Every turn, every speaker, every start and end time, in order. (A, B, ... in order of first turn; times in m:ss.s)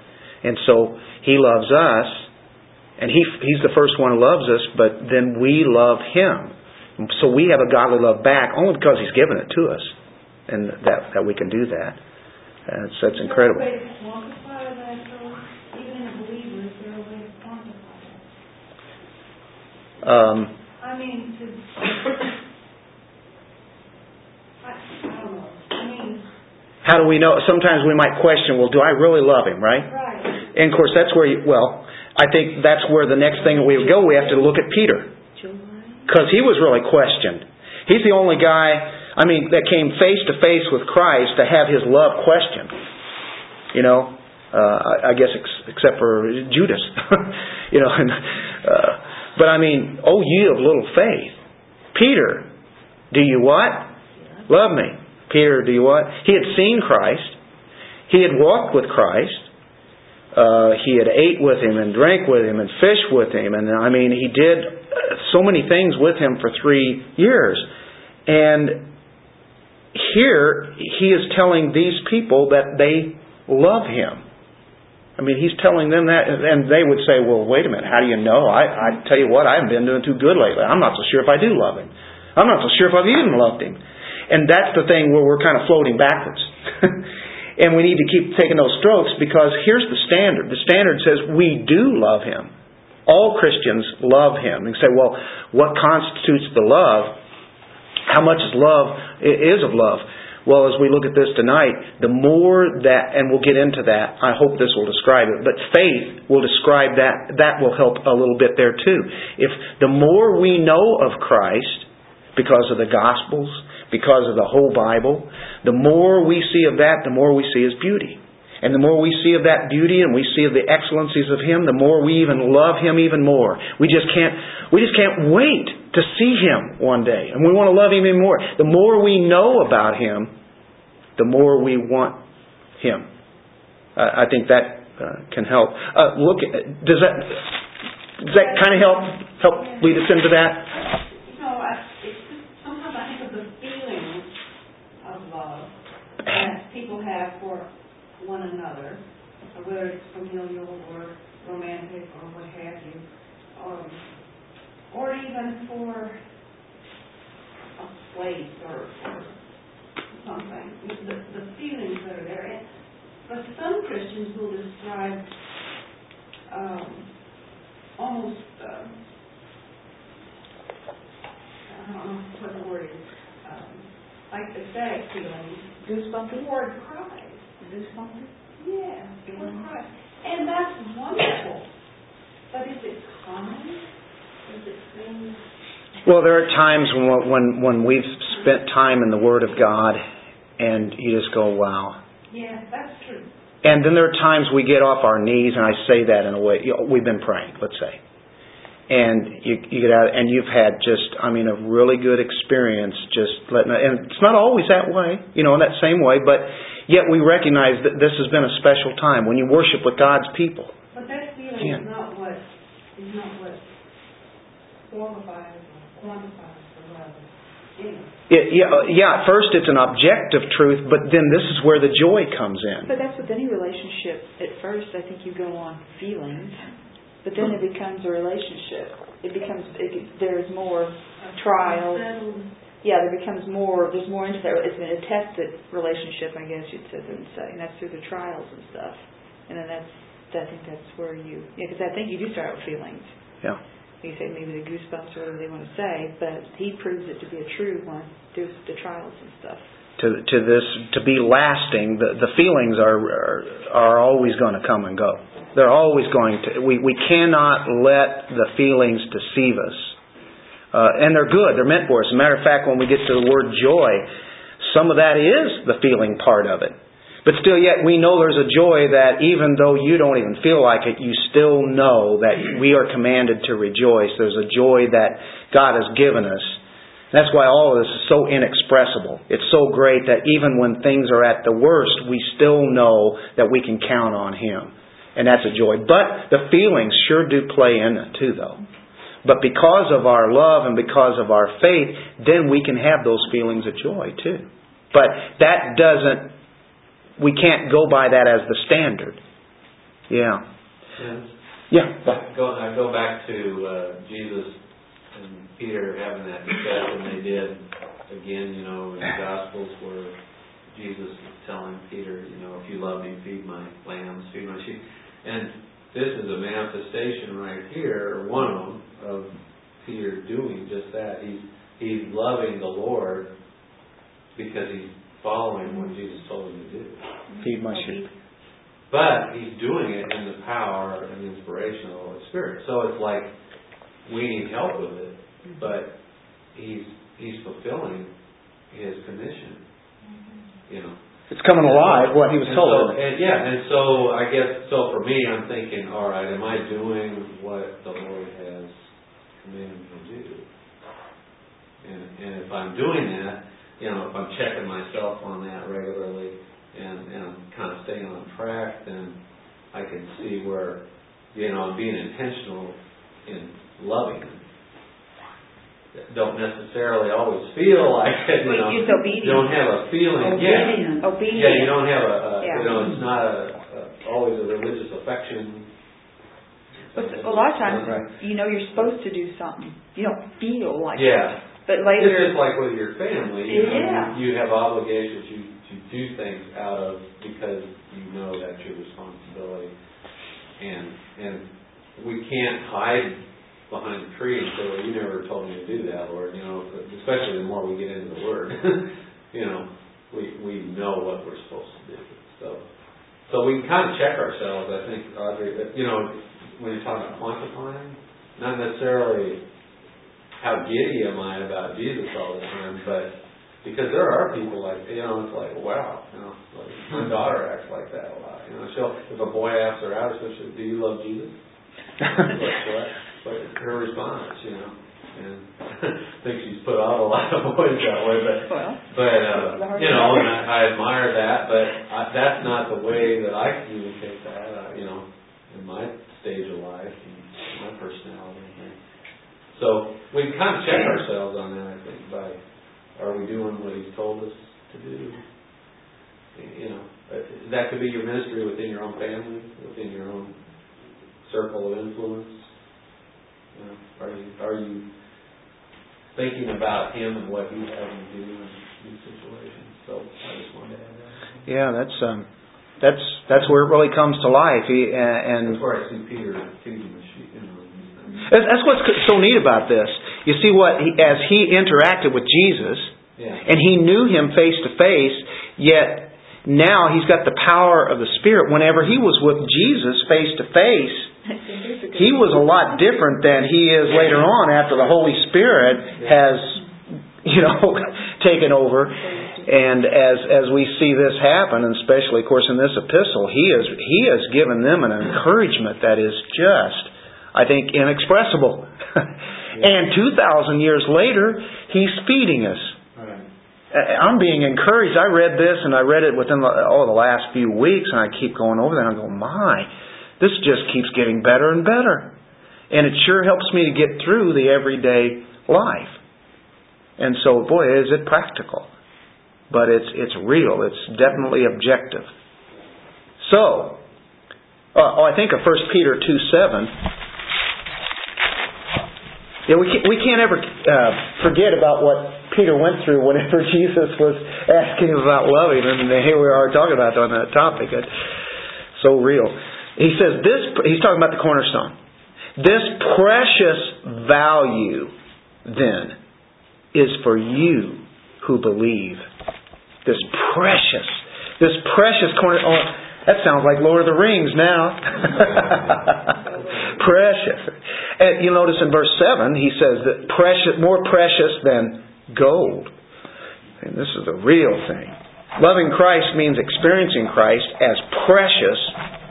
0:00.4-0:02.3 A
0:03.0-0:09.9 A
0:10.5-0:12.0 A
0:12.7-0:13.7 A
0:13.1-0:18.3 B
0:20.0-0:20.5 A
0:20.8-0:22.1 B
0:24.6-0:26.2 B
0:26.8-0:35.1 A
0:29.9-0:30.4 B
0:35.4-0:35.8 B
0:36.1-0:42.7 A
0:43.7-0:51.4 A
0:51.9-0:52.5 A
0:53.1-0:53.9 A
0:54.5-0:57.4 A
0:58.1-0:59.5 A
1:00.3-1:07.7 A
1:08.3-1:08.9 A
1:09.9-1:14.2 A
1:15.2-1:32.5 A
1:33.0-1:37.2 A
1:38.1-2:10.3 A
2:11.2-2:12.2 A
2:12.8-2:13.1 A
2:14.0-2:17.5 A
2:18.2-2:20.7 A
2:18.4-2:19.1 B
2:20.7-2:24.3 B
2:25.0-2:34.0 B
2:34.9-2:36.1 B
2:37.8-2:39.3 B
2:40.1-2:42.6 B
2:43.2-2:45.3 B
2:46.5-2:47.1 B
2:48.0-2:49.0 B
2:51.7-2:55.8 B
2:55.8-2:56.5 C
2:56.3-2:57.5 B
2:57.6-2:58.3 C
2:58.6-3:01.7 B
2:59.2-2:59.7 C
3:02.5-3:03.9 B
3:04.4-3:05.4 B
3:06.0-3:10.0 A
3:10.6-3:12.0 A
3:12.3-3:13.3 B
3:13.6-3:18.0 A
3:18.9-3:30.7 A
3:30.9-3:32.4 B
3:31.6-3:31.8 A
3:32.9-3:33.6 B
3:34.8-3:38.1 B
3:38.3-3:42.9 A
3:42.8-3:46.6 C
3:47.2-3:52.1 C
3:51.2-3:52.5 B
3:52.8-4:03.1 C
4:04.0-4:09.6 C
4:10.0-4:19.9 A
4:20.7-4:36.6 A
4:37.1-4:48.6 A
4:49.2-4:56.3 A
4:57.2-4:59.2 A
5:00.1-5:00.4 A
5:01.0-5:01.3 D
5:01.7-5:02.2 A
5:02.0-5:04.6 D
5:05.1-5:10.1 D
5:10.7-5:23.3 D
5:24.3-5:27.0 D
5:27.4-5:28.0 C
5:27.4-5:28.0 A
5:28.9-5:33.3 D
5:34.0-5:35.9 D
5:36.5-5:38.1 D
5:38.7-5:39.6 D
5:40.7-5:41.0 D
5:41.3-5:43.0 A
5:41.5-5:48.9 D
5:49.4-5:50.4 D
5:51.8-5:59.2 D
5:59.7-6:00.8 D
6:01.3-6:04.4 D
6:05.9-6:15.7 D
6:08.6-6:09.5 C
6:10.4-6:11.8 C
6:12.4-6:12.8 C
6:16.8-6:18.1 D
6:16.9-6:22.4 C
6:20.9-6:29.7 D
6:23.6-6:24.1 B
6:23.6-6:24.0 C
6:30.6-6:42.6 D
6:43.3-6:49.4 D
6:50.4-7:01.4 D
7:02.0-7:18.8 D
7:08.5-7:10.4 C
7:19.5-7:22.4 D
7:23.0-7:25.2 D
7:26.3-7:30.4 D
7:31.2-7:32.5 D
7:33.5-7:34.9 D
7:36.1-7:41.2 D
7:41.4-7:42.3 A
7:42.8-7:45.6 A
7:45.4-7:48.3 D
7:48.2-8:01.1 A
7:53.2-7:53.4 D
8:01.3-8:02.4 C
8:01.9-8:22.8 A
8:23.0-8:23.2 D
8:23.7-8:32.1 A
8:32.7-8:36.0 A
8:37.0-8:38.7 A
8:39.5-8:42.1 A
8:43.2-8:43.8 A
8:44.7-8:46.7 A
8:49.5-8:57.9 A
8:58.8-9:01.7 A
9:02.4-9:04.9 A
9:05.4-9:06.0 A
9:06.7-9:09.1 A
9:09.8-9:22.7 A
9:23.6-9:28.8 A